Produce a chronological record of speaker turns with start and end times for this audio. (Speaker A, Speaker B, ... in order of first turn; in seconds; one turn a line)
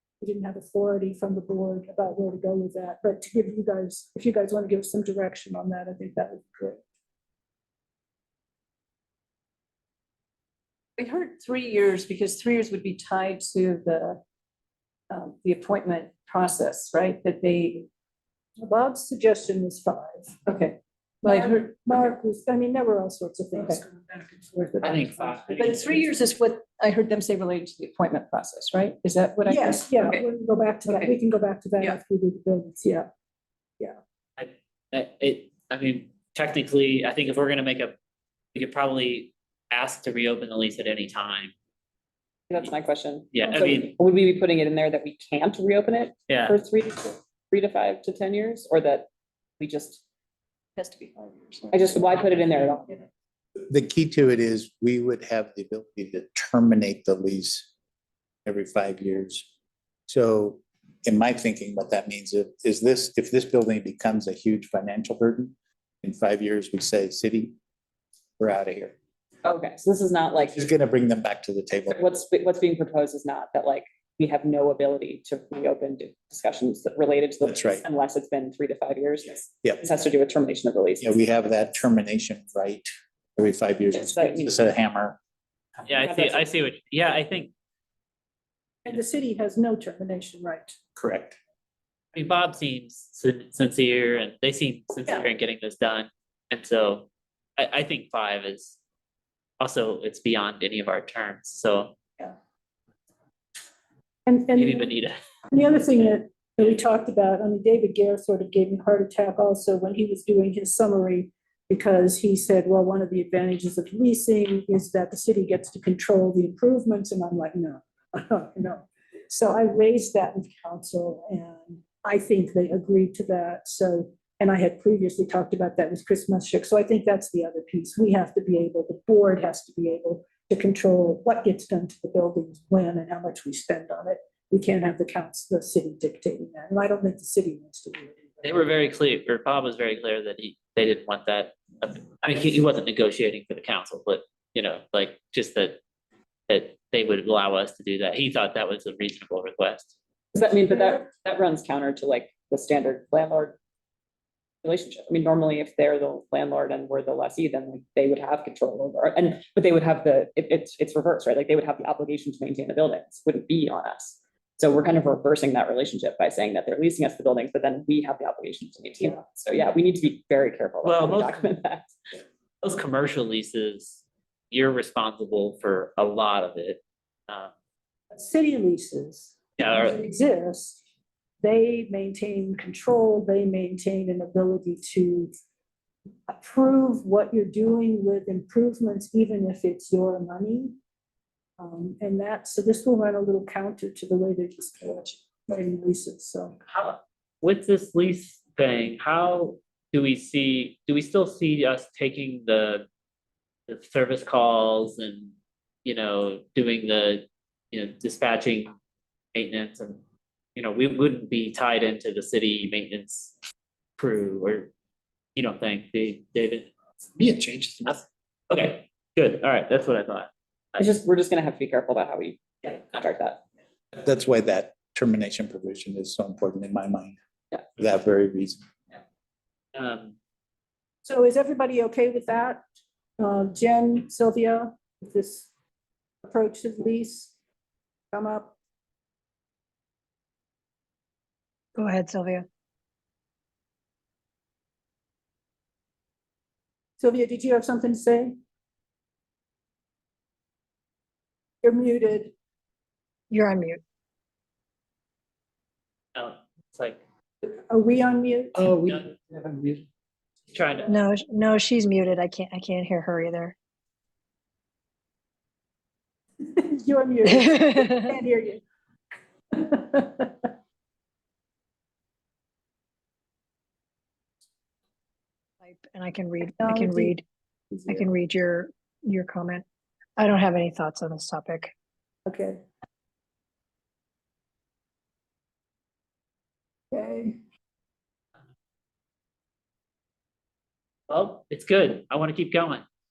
Speaker A: 0.2-6.8
Speaker B: 11.0-14.2
Speaker B: 15.1-17.9
Speaker A: 18.6-20.4
Speaker B: 20.4-22.0
Speaker A: 21.2-25.6
Speaker C: 24.8-26.0
Speaker B: 25.6-30.2
Speaker A: 29.4-33.0
Speaker C: 34.4-37.9
Speaker C: 38.5-41.5
Speaker D: 42.5-49.1
Speaker C: 43.3-43.9
Speaker C: 46.3-46.6
Speaker D: 49.6-50.0
Speaker B: 50.8-52.2
Speaker D: 51.7-53.0
Speaker E: 53.7-57.7
Speaker E: 58.4-59.5
Speaker E: 60.1-67.5
Speaker E: 68.4-68.9
Speaker D: 69.4-70.6
Speaker E: 70.5-72.0
Speaker D: 71.9-81.1
Speaker E: 77.4-77.8
Speaker E: 81.0-85.2
Speaker D: 83.9-84.6
Speaker C: 85.9-87.5
Speaker D: 86.0-86.5
Speaker A: 88.8-90.8
Speaker E: 91.0-91.4
Speaker C: 92.1-98.8
Speaker C: 99.6-101.9
Speaker A: 104.2-104.9
Speaker C: 104.5-105.2
Speaker A: 105.5-138.3
Speaker C: 138.4-145.8
Speaker C: 146.5-149.9
Speaker D: 150.3-153.6
Speaker D: 154.6-171.9
Speaker C: 170.8-171.5
Speaker C: 172.6-177.5
Speaker A: 178.1-180.8
Speaker C: 179.6-180.0
Speaker A: 181.4-185.3
Speaker A: 186.3-190.8
Speaker A: 191.6-196.5
Speaker C: 196.7-202.9
Speaker C: 203.7-205.3
Speaker C: 205.8-208.7
Speaker C: 209.3-210.0
Speaker C: 210.5-213.3
Speaker C: 214.0-214.7
Speaker C: 215.3-216.7
Speaker E: 217.2-217.7
Speaker C: 217.8-220.3
Speaker D: 220.8-223.4
Speaker E: 223.9-227.2
Speaker E: 227.8-228.6
Speaker C: 229.7-230.1
Speaker A: 231.0-232.6
Speaker A: 233.2-235.5
Speaker A: 236.2-237.3
Speaker A: 238.1-238.6
Speaker F: 241.8-242.5
Speaker A: 247.0-248.3
Speaker A: 251.6-252.3
Speaker F: 253.3-253.8
Speaker C: 256.1-257.0
Speaker A: 257.4-258.5
Speaker C: 258.8-259.1
Speaker C: 260.5-260.9
Speaker F: 260.9-263.5
Speaker A: 266.4-268.6
Speaker F: 267.3-268.0
Speaker A: 269.5-270.4
Speaker F: 275.6-277.2
Speaker A: 276.6-277.1
Speaker A: 277.7-278.0
Speaker F: 277.9-279.6
Speaker F: 280.2-281.7
Speaker A: 282.2-282.6
Speaker A: 286.9-287.4
Speaker C: 291.1-292.8